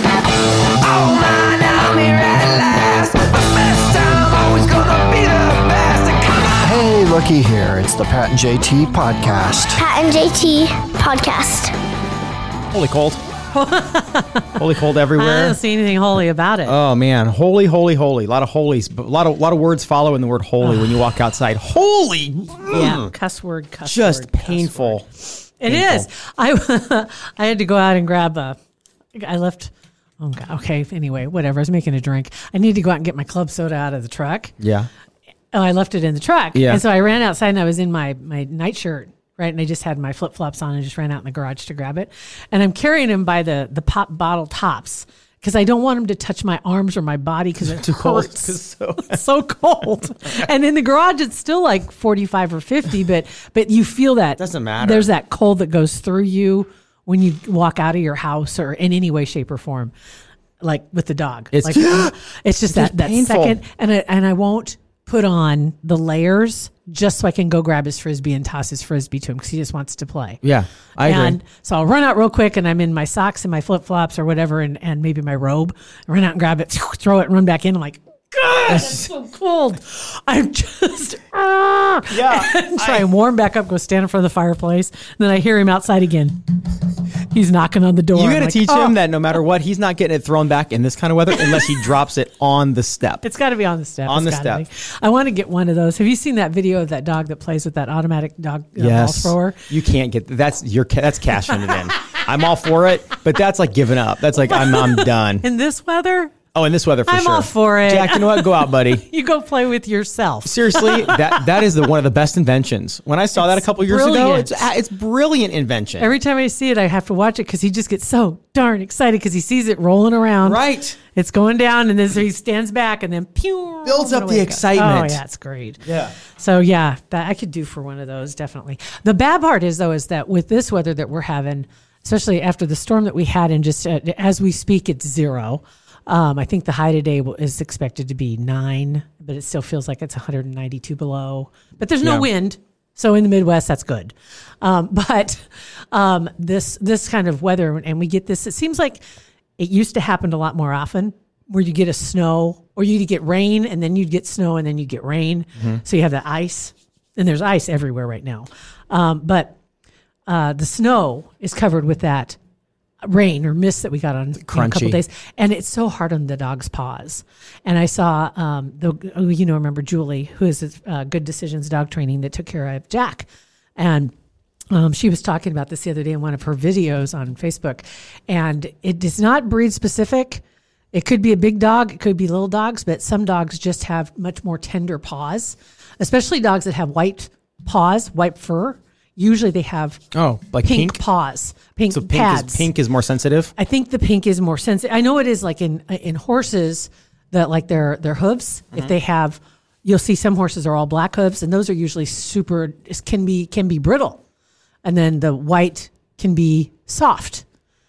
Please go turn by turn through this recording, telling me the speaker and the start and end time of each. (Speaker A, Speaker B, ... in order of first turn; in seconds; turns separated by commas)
Speaker A: 0.6-6.7, Speaker B: 6.6-9.8, Speaker C: 9.8-11.7, Speaker D: 12.7-13.2, Speaker E: 13.5-14.6, Speaker D: 14.6-15.6, Speaker E: 15.1-16.8, Speaker D: 16.7-23.1, Speaker E: 20.6-21.0, Speaker E: 22.7-28.6, Speaker D: 23.9-25.1, Speaker D: 25.7-26.1, Speaker E: 29.1-34.6, Speaker D: 34.6-34.9, Speaker E: 35.5-59.9, Speaker D: 36.5-36.8, Speaker D: 47.6-49.2, Speaker D: 54.4-55.1, Speaker E: 60.6-70.4, Speaker D: 61.5-62.2, Speaker D: 62.7-63.6, Speaker D: 70.4-71.4, Speaker E: 71.0-86.5, Speaker D: 78.7-79.1, Speaker D: 82.1-83.1, Speaker E: 87.2-89.0, Speaker D: 88.1-93.2, Speaker E: 93.2-99.7, Speaker D: 94.1-94.6, Speaker D: 98.8-105.4, Speaker E: 104.5-106.4, Speaker D: 106.5-109.0, Speaker E: 107.1-111.6, Speaker D: 110.4-116.1, Speaker E: 113.4-114.7, Speaker E: 116.0-149.0, Speaker D: 120.5-121.0, Speaker D: 123.8-125.2, Speaker D: 125.8-126.1, Speaker E: 149.6-159.6, Speaker E: 160.3-162.4, Speaker E: 163.0-174.1, Speaker D: 164.4-165.0, Speaker E: 174.7-190.1, Speaker D: 190.1-191.0, Speaker E: 190.6-192.7, Speaker D: 191.9-193.5, Speaker E: 193.6-204.2, Speaker E: 204.8-207.4